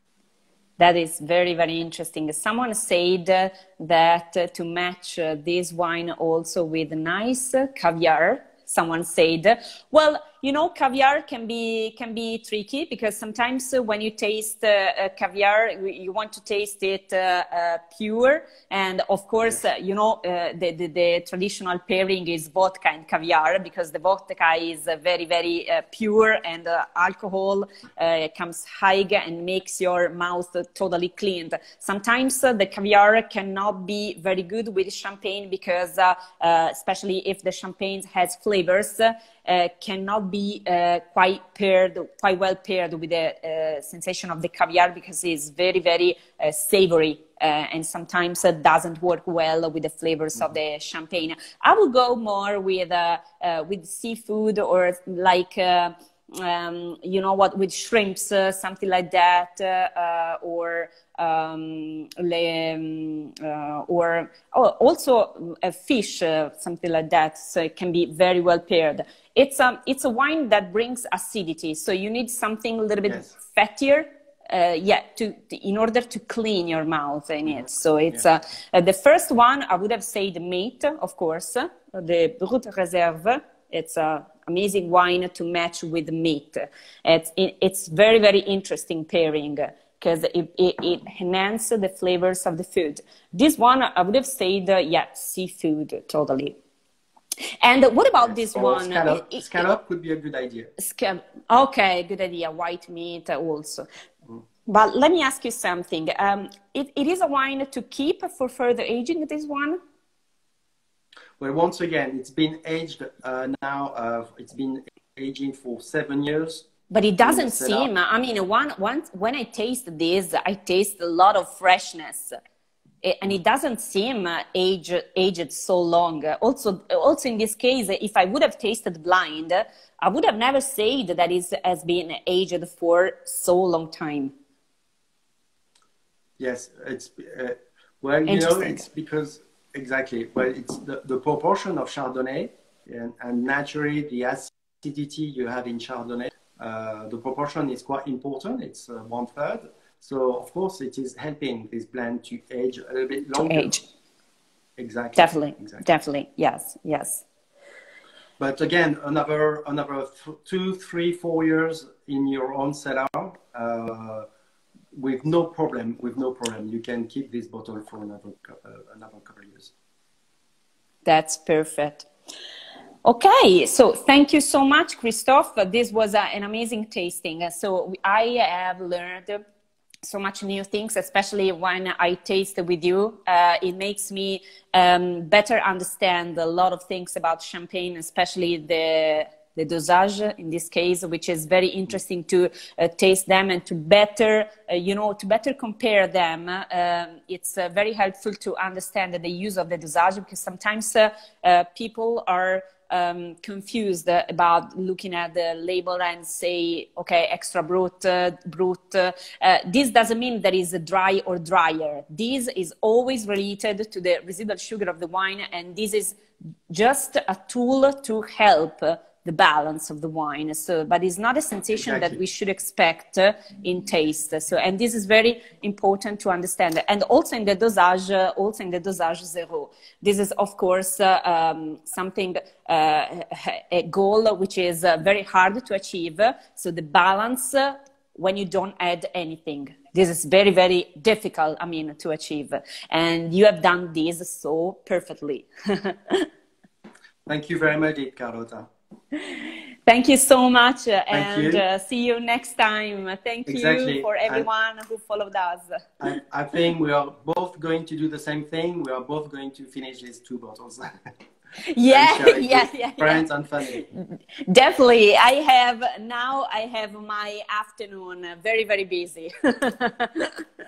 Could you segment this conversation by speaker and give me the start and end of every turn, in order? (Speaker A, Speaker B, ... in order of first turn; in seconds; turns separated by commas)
Speaker A: 0.8-96.6, Speaker A: 97.6-99.6, Speaker B: 98.2-100.7, Speaker A: 100.8-103.8, Speaker A: 104.7-109.8, Speaker B: 111.4-116.7, Speaker A: 116.9-122.3, Speaker B: 117.2-117.9, Speaker A: 123.0-134.3, Speaker B: 136.4-153.7, Speaker A: 138.3-138.8, Speaker A: 153.3-153.8, Speaker B: 154.8-155.8, Speaker A: 155.2-157.2, Speaker B: 158.4-164.2, Speaker B: 164.9-169.7, Speaker A: 171.0-172.1, Speaker A: 173.0-179.4, Speaker A: 180.0-246.2, Speaker B: 221.7-222.2, Speaker B: 247.2-248.7, Speaker A: 249.1-256.2, Speaker B: 251.1-251.6, Speaker B: 253.5-254.5, Speaker B: 256.0-260.9, Speaker A: 261.6-270.4, Speaker B: 261.9-263.8